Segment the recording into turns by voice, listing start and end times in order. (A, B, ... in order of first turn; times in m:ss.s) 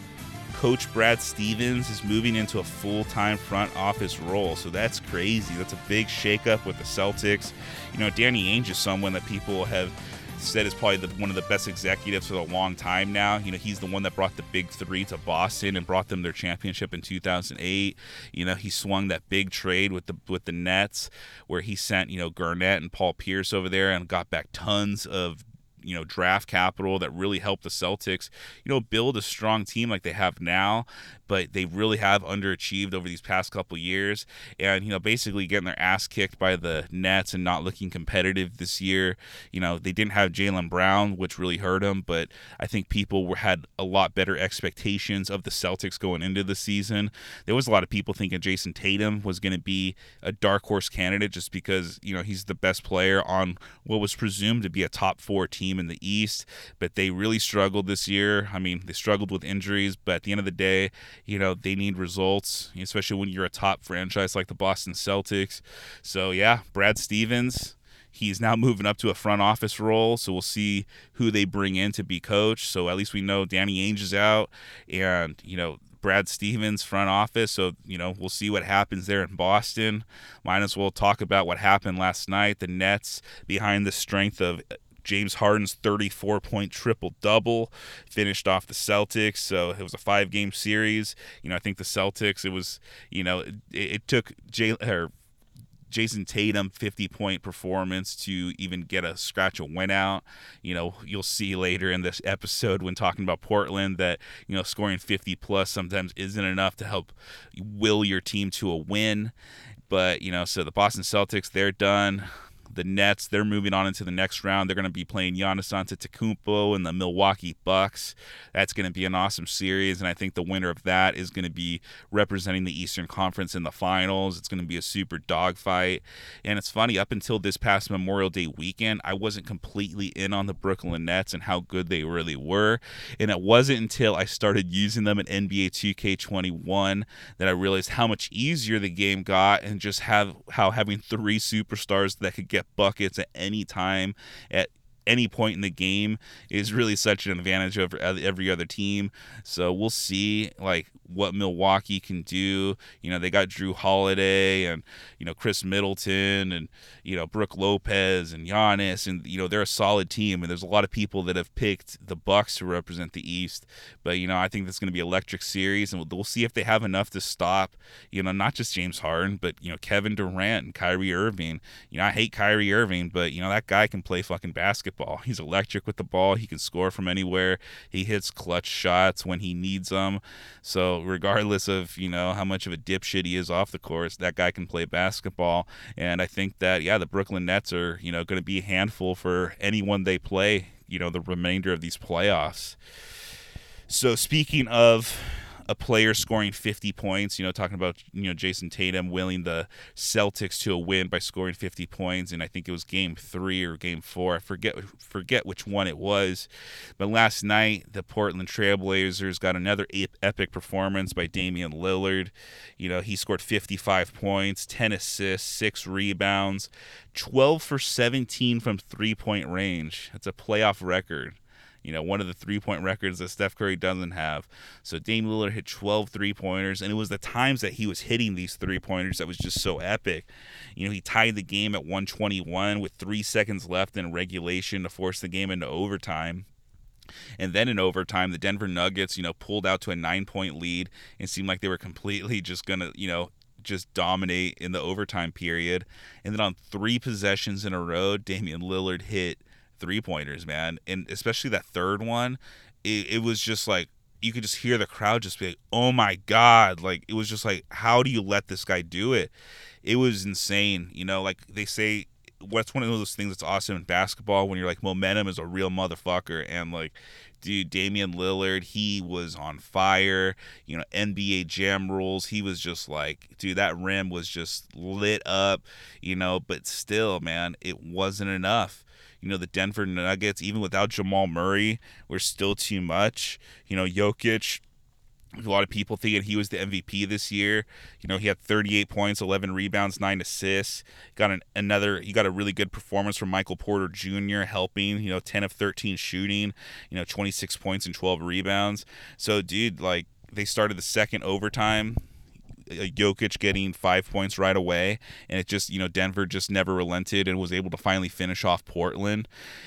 0:00.5-1:35.1 A
1:35.9-1:49.4 A
1:49.9-3:12.8 A
3:13.9-3:56.5 A
3:57.4-4:44.6 A
4:45.4-5:02.0 A
5:02.7-5:09.3 A